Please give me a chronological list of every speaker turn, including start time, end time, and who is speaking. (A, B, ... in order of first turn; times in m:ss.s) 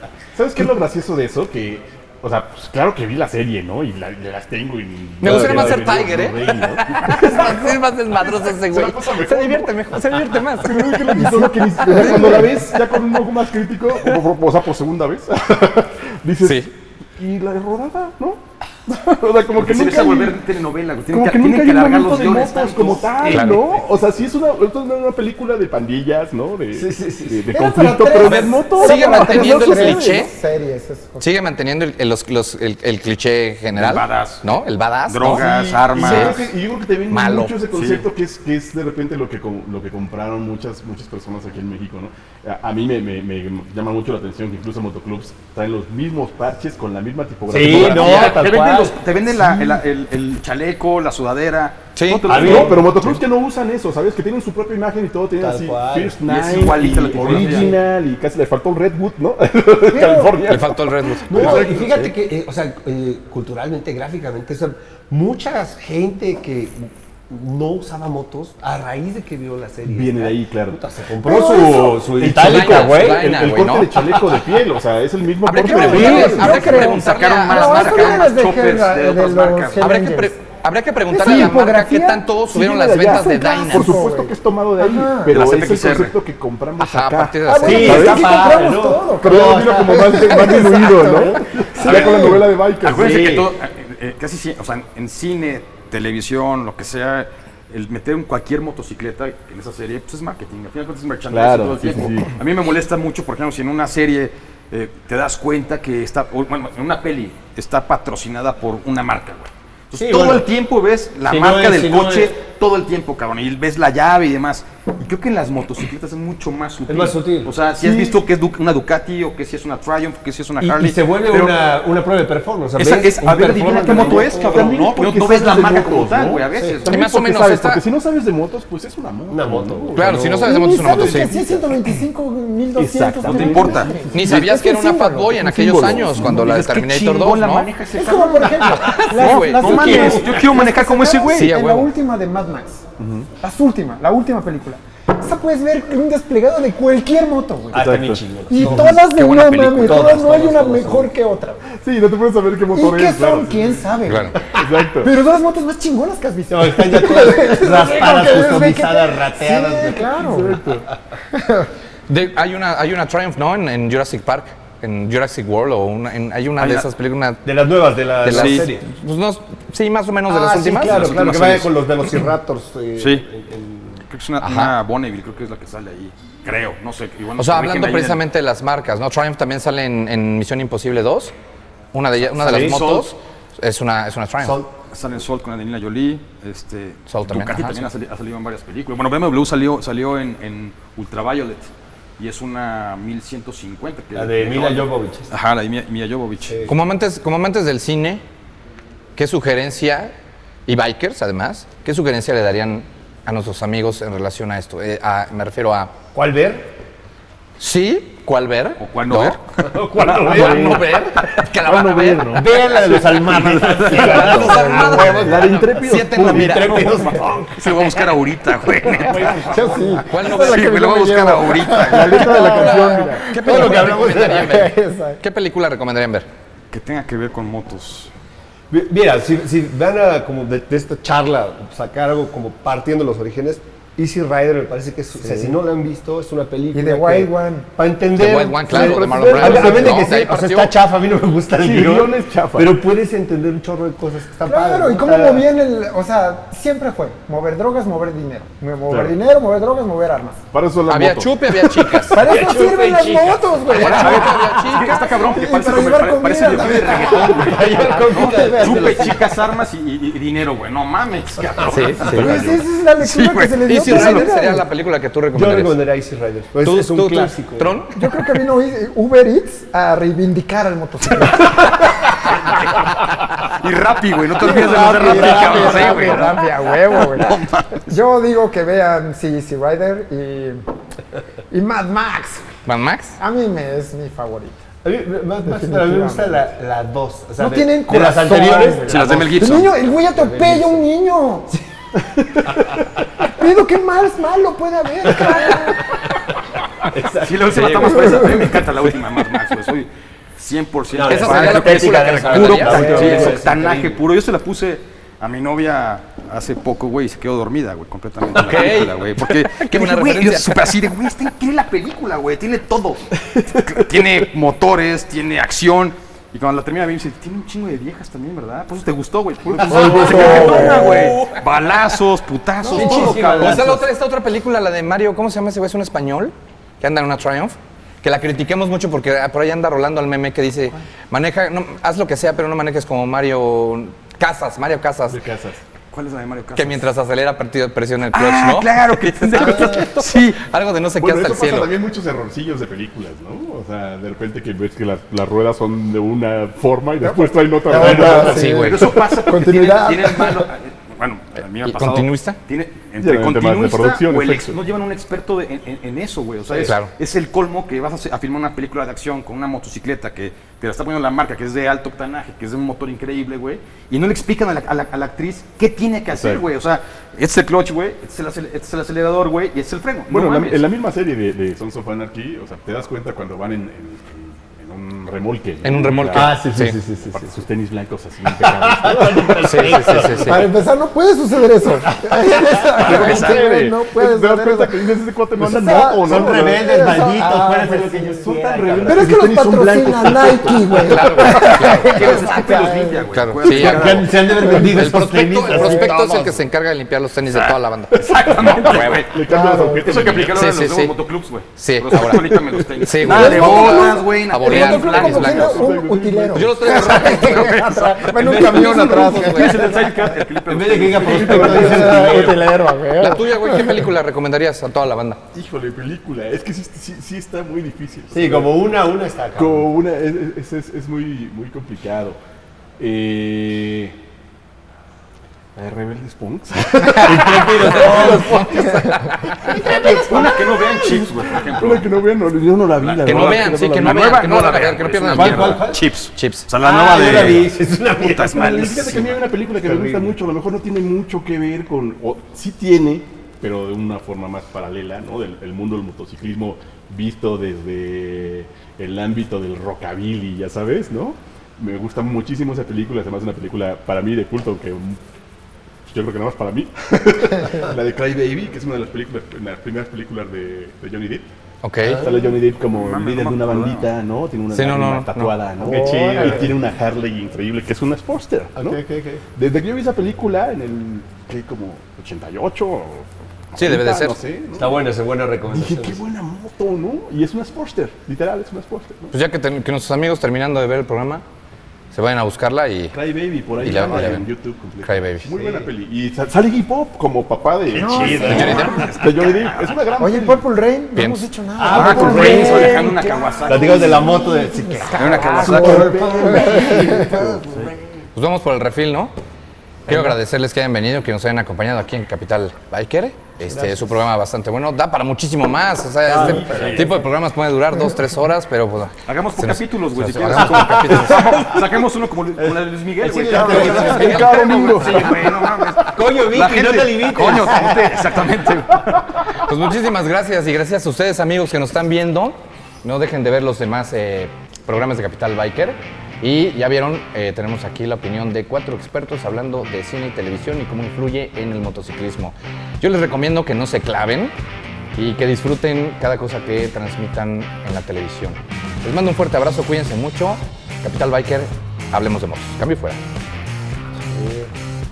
0:00.4-0:20.4 A
0:05.2-0:11.2 B
0:05.2-0:05.9 C
0:11.1-0:12.6 D
0:12.0-0:12.5 B
0:16.4-0:16.7 B
0:19.6-0:23.3 E
0:21.1-0:30.2 A
0:22.8-0:23.9 C
0:23.3-0:23.8 B
0:26.7-0:27.6 C
0:27.5-0:31.4 D
0:28.2-0:30.3 B
0:31.2-0:36.4 B
0:33.8-0:34.4 E
0:35.1-0:36.5 E
0:35.2-0:48.4 A
0:37.1-0:37.6 B
0:37.7-0:38.1 E
0:47.5-0:49.8 C
0:47.6-0:52.9 E
0:52.0-0:52.7 B
0:52.3-0:52.9 C
0:52.3-1:02.1 A
0:55.4-0:56.2 C
0:56.3-0:57.8 E
0:57.2-0:57.8 C
0:59.9-1:00.4 D
1:00.5-1:02.1 B
1:01.3-1:13.4 C
1:09.9-1:10.8 A
1:11.2-1:12.0 D
1:11.5-1:16.9 A
1:12.4-1:14.0 B
1:14.1-1:14.4 C
1:15.4-1:18.3 B
1:15.6-1:20.4 D
1:15.9-1:16.4 C
1:16.3-1:19.9 E
1:19.8-1:24.1 B
1:21.1-1:22.4 D
1:21.2-1:21.6 A
1:22.4-1:28.3 A
1:22.9-1:25.4 D
1:25.3-1:26.2 E
1:26.8-1:28.1 B
1:27.5-1:30.4 C
1:27.5-1:32.4 D
1:29.2-1:33.4 A
1:31.8-2:01.6 E
1:32.9-1:33.5 C
1:41.3-1:42.3 A
1:50.0-1:50.5 C
1:51.2-1:52.4 C
1:56.9-1:57.6 C
1:57.7-1:58.2 A
2:00.6-2:04.8 C
2:02.8-2:06.9 E
2:03.9-2:10.2 A
2:06.6-2:06.8 C
2:06.9-2:07.8 B
2:09.3-2:12.0 C
2:09.9-2:11.3 B
2:10.4-2:16.4 D
2:12.8-2:14.4 A
2:13.2-2:14.4 E
2:14.1-2:17.7 B
2:15.5-2:16.4 A
2:16.2-2:21.6 E
2:17.9-2:22.9 D
2:18.7-2:19.1 C
2:19.2-2:20.1 B
2:19.6-2:20.5 C
2:21.3-2:21.9 B
2:23.0-2:23.3 A
2:23.4-2:31.7 D
2:27.7-2:31.1 C
2:27.7-2:29.0 A
2:29.2-2:29.8 B
2:31.7-2:33.8 A
2:32.7-2:40.6 D
2:34.1-2:34.5 B
2:34.4-2:35.1 A
2:36.5-2:40.6 C
2:40.2-2:40.9 A
2:41.3-2:41.7 D
2:42.1-2:47.4 B
2:46.6-2:46.9 E
2:47.5-2:48.9 C
2:48.2-2:51.4 B
2:48.3-2:48.6 E
2:50.3-2:54.0 C
2:50.8-2:51.7 E
2:53.0-2:53.2 E
2:54.1-2:58.2 E
2:54.4-2:54.8 B
2:57.4-3:01.3 B
3:01.9-3:04.6 B
3:02.4-3:03.1 E
3:02.4-3:02.9 C
3:04.4-3:04.7 C
3:04.9-3:16.6 E
3:07.1-3:07.8 B
3:14.1-3:15.3 C
3:16.5-3:16.8 C
3:16.7-3:18.2 B
3:19.2-3:20.1 B
3:20.7-3:25.9 B
3:26.1-3:26.7 C
3:27.6-3:29.4 B
3:28.8-3:29.6 E
3:29.7-3:31.0 C
3:30.0-3:32.4 B
3:30.0-3:37.1 A
3:32.3-3:38.0 C
3:33.9-3:37.1 B
3:34.4-3:35.2 D
3:37.6-3:39.5 E
3:38.9-3:40.1 C
3:39.1-3:40.0 A
3:39.5-3:45.2 D
3:40.1-3:40.8 B
3:40.1-3:42.2 E
3:41.8-3:43.4 A
3:42.4-3:46.3 B
3:43.4-3:44.7 C
3:46.7-3:48.1 E
3:48.7-4:05.4 C
3:55.2-3:55.6 D
3:56.7-3:57.7 D
3:58.1-4:00.7 B
3:58.8-4:00.1 A
3:58.8-4:00.1 D
4:01.6-4:02.8 A
4:04.5-4:10.4 D
4:08.9-4:09.2 A
4:10.5-4:12.2 A
4:10.9-4:12.5 B
4:12.1-4:19.2 D
4:12.2-4:14.2 C
4:13.7-4:15.2 B
4:13.7-4:24.2 E
4:16.4-4:19.4 C
4:21.7-4:22.5 B
4:22.1-4:24.7 D
4:22.1-4:22.6 A
4:23.6-4:25.8 B
4:25.3-4:27.8 C
4:26.6-4:28.1 B
4:28.0-4:31.8 D
4:33.5-4:38.0 E
4:34.4-4:36.4 C
4:34.4-4:40.6 D
4:41.5-4:42.5 D
4:42.7-4:43.2 B
4:43.2-4:44.6 D
4:44.8-4:49.3 C
4:45.5-4:46.4 D
4:47.4-4:51.5 D
4:48.9-4:49.8 E
4:50.1-4:50.9 C
4:53.2-4:56.0 D
4:55.1-4:55.8 C
4:56.9-4:58.3 C
4:57.2-5:23.8 E
4:57.6-4:58.0 B
4:57.8-4:58.6 D
5:00.9-5:04.0 C
5:01.0-5:03.4 B
5:02.8-5:03.3 D
5:08.3-5:10.8 B
5:19.5-5:21.1 C
5:19.6-5:21.2 D
5:20.2-5:20.5 B
5:22.6-5:23.9 C
5:22.7-5:35.2 B
5:35.1-5:35.6 A
5:35.9-5:36.9 E
5:36.6-5:41.7 B
5:38.1-5:40.4 E
5:41.0-5:49.3 A
5:47.0-5:50.5 D
5:47.7-5:48.4 C
5:48.3-5:48.9 B
5:48.6-6:10.6 E
5:51.6-5:52.4 B
5:53.0-5:54.6 A
5:56.6-5:56.9 B
6:06.1-6:06.4 A
6:10.1-6:16.5 A
6:15.6-6:16.8 B
6:16.1-6:17.4 C
6:17.1-6:20.2 A
6:18.3-6:20.5 C
6:19.4-6:20.5 B
6:20.2-6:28.3 D
6:21.9-6:22.7 C
6:22.8-6:27.0 A
6:22.8-6:23.4 E
6:25.8-6:29.2 C
6:28.2-6:31.3 A
6:28.9-6:33.1 D
6:30.8-6:32.3 B
6:31.3-6:34.4 E
6:33.1-6:39.1 B
6:33.4-6:36.4 C
6:34.4-6:36.0 D
6:37.3-6:39.1 E
6:38.0-6:40.4 A
6:39.3-6:40.1 D
6:39.8-6:45.4 E
6:40.3-6:41.0 B
6:41.6-6:45.7 B
6:43.0-6:50.1 D
6:44.8-6:46.7 A
6:46.3-6:49.7 B
6:46.8-6:47.9 E
6:48.2-6:52.5 C
6:49.1-6:51.8 E
6:51.0-6:52.2 A
6:51.2-6:53.9 D
6:53.0-6:55.2 B
6:55.3-6:58.6 A
6:58.1-6:59.7 C
6:59.4-7:02.2 A
7:02.8-7:04.0 A
7:05.6-7:08.2 A
7:07.0-7:08.7 C
7:07.6-7:09.6 B
7:08.6-7:09.0 D
7:09.5-7:14.1 A
7:09.6-7:10.2 D
7:10.0-7:11.9 E
7:12.8-7:19.2 E
7:13.0-7:16.5 B
7:15.1-7:15.9 C
7:16.6-7:20.2 C
7:18.3-7:35.0 A
7:35.9-7:41.3 A
7:41.6-7:42.0 B
7:41.8-7:48.8 A
7:41.9-7:42.3 C
7:42.7-7:43.9 E
7:44.5-7:45.4 B
7:45.6-7:46.5 C
7:45.6-7:46.5 D
7:48.6-7:49.2 C
7:49.4-7:54.9 A
7:53.6-7:54.2 B
7:54.6-7:56.0 C
7:55.5-7:59.2 A
7:59.1-8:01.2 B
8:01.9-8:03.0 B
8:02.9-8:10.5 A
8:03.6-8:04.3 B
8:04.8-8:05.3 B
8:07.7-8:08.7 C
8:07.8-8:08.8 D
8:08.2-8:09.9 E
8:08.4-8:08.8 B
8:10.0-8:17.2 D
8:10.9-8:11.3 B
8:11.6-8:17.8 C
8:11.7-8:14.2 E
8:11.7-8:12.6 A
8:14.9-8:15.9 E
8:15.3-8:17.7 A
8:18.2-8:19.1 B
8:19.9-8:31.6 B
8:23.5-8:24.0 C
8:26.0-8:27.0 C
8:26.3-8:26.9 E
8:29.1-8:39.0 E
8:30.3-8:31.4 C
8:32.4-8:34.3 C
8:33.3-8:35.4 A
8:33.5-8:35.2 B
8:35.9-8:38.2 C
8:39.4-8:54.3 B
8:55.0-9:03.0 B